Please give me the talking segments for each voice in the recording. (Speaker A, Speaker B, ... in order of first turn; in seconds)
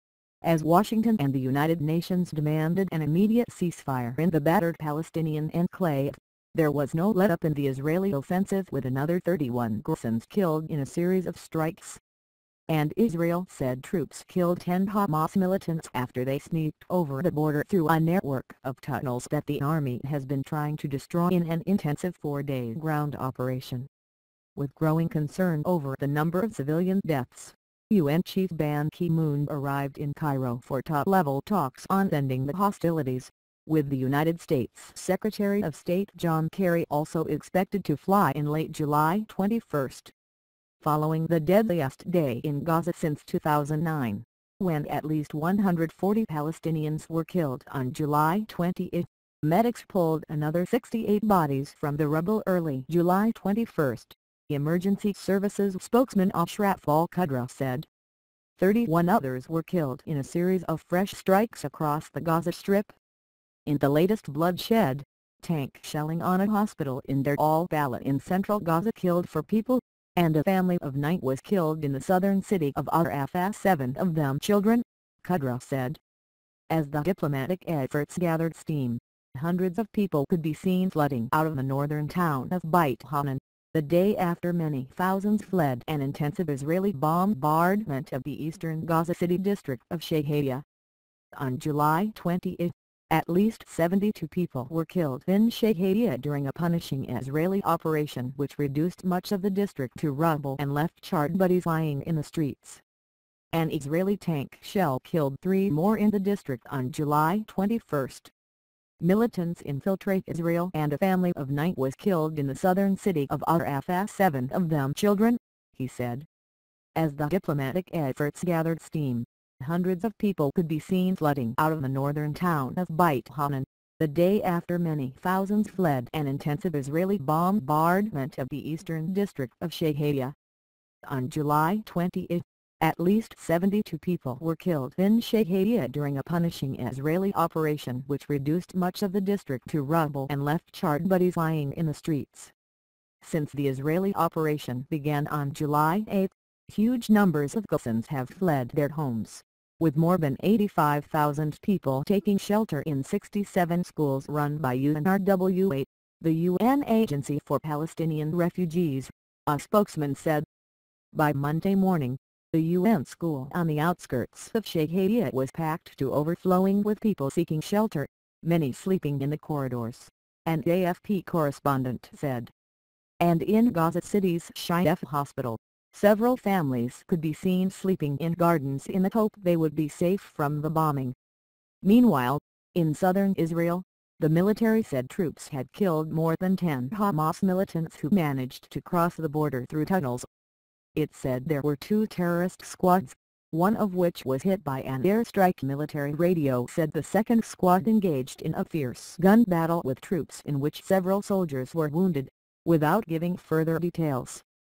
Speaker A: 0.4-12.0, 12.7-23.9, 24.6-40.1, 40.8-57.9, 58.6-62.9, 63.7-76.0, 76.7-90.6, 91.3-102.8, 103.5-108.3, 109.0-116.3, 117.0-130.4, 131.0-142.5, 143.2-160.4, 161.1-172.5, 173.2-181.1, 181.8-190.3, 190.9-204.4